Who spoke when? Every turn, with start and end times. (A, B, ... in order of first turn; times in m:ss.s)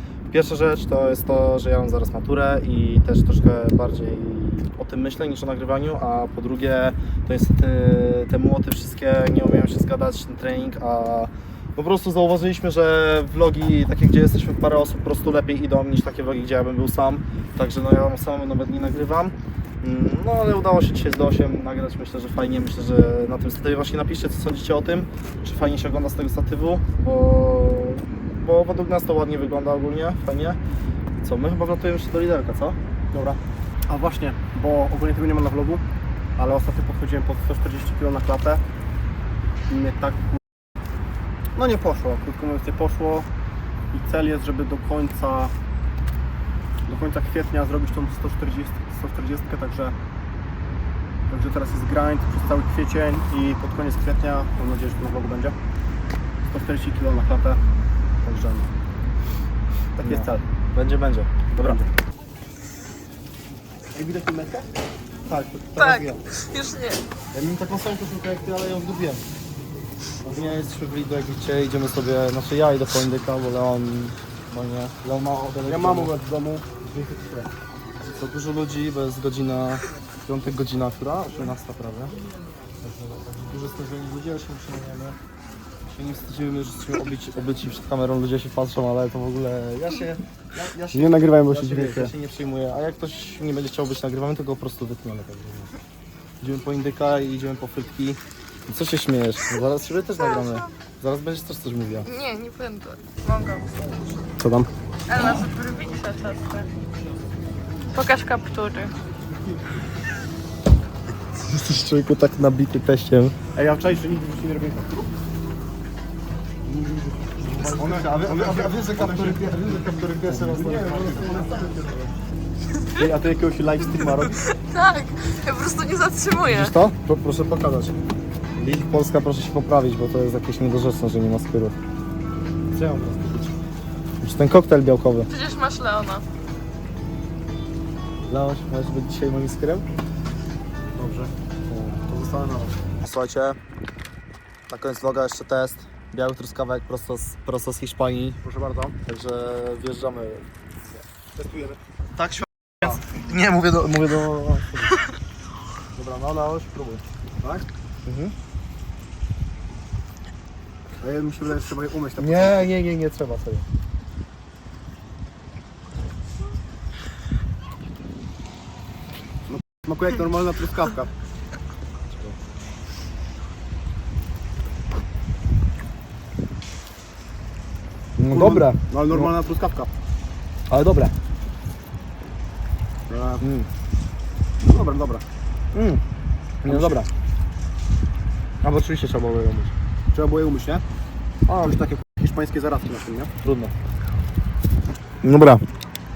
0:00.3-0:30.6 A
0:31.2-0:32.8 A
0:33.1-0:35.8 B
0:36.4-0:38.6 B
0:39.7-0:40.4 B
0:41.5-0:43.3 B
0:43.9-0:45.5 B
0:46.8-0:50.0 B
0:51.3-0:55.6 B
0:56.4-0:57.6 B
0:58.2-0:58.7 B
1:00.0-1:00.4 B
1:00.0-1:01.8 A
1:01.5-1:01.9 B
1:03.9-1:04.7 B
1:05.2-1:06.2 A
1:05.8-1:07.0 C
1:07.3-1:09.2 A
1:10.2-1:10.5 B
1:10.3-1:16.1 A
1:15.6-1:17.5 B
1:18.0-1:22.2 A
1:22.8-1:25.2 A
1:25.9-1:35.7 A
1:30.9-1:32.1 B
1:36.4-1:42.1 A
1:42.0-1:43.7 C
1:44.4-1:44.7 B
1:45.1-1:46.7 C
1:47.9-1:48.9 C
1:51.4-1:53.4 A
1:53.5-1:55.1 B
1:56.6-1:59.6 B
1:57.5-2:02.0 A
2:00.2-2:02.1 B
2:03.0-2:04.4 B
2:04.3-2:06.7 C
2:06.5-2:08.0 A
2:08.6-2:11.8 A
2:12.7-2:13.5 A
2:14.2-2:15.3 A
2:15.3-2:16.2 C
2:18.3-2:19.8 A
2:21.0-2:21.9 A
2:21.9-2:22.8 B
2:23.0-2:23.6 A
2:24.7-2:28.4 A
2:28.4-2:29.0 B
2:29.0-2:30.4 A
2:31.4-2:31.8 B
2:32.2-2:35.0 A
2:36.0-2:37.0 A
2:37.4-2:37.7 B
2:38.0-2:38.3 A
2:41.0-2:42.7 B
2:42.2-2:43.6 A
2:49.5-2:51.1 B
2:52.1-2:52.4 A
2:58.2-2:59.3 A
2:58.3-2:59.9 B
3:00.7-3:01.1 A
3:03.1-3:03.4 B
3:03.4-3:03.7 A
3:04.6-3:05.2 B
3:05.7-3:06.0 A
3:06.6-3:07.1 A
3:06.6-3:07.0 B
3:08.6-3:09.7 A
3:10.1-3:10.8 B
3:11.5-3:13.3 B
3:13.4-3:13.7 A
3:15.2-3:15.6 A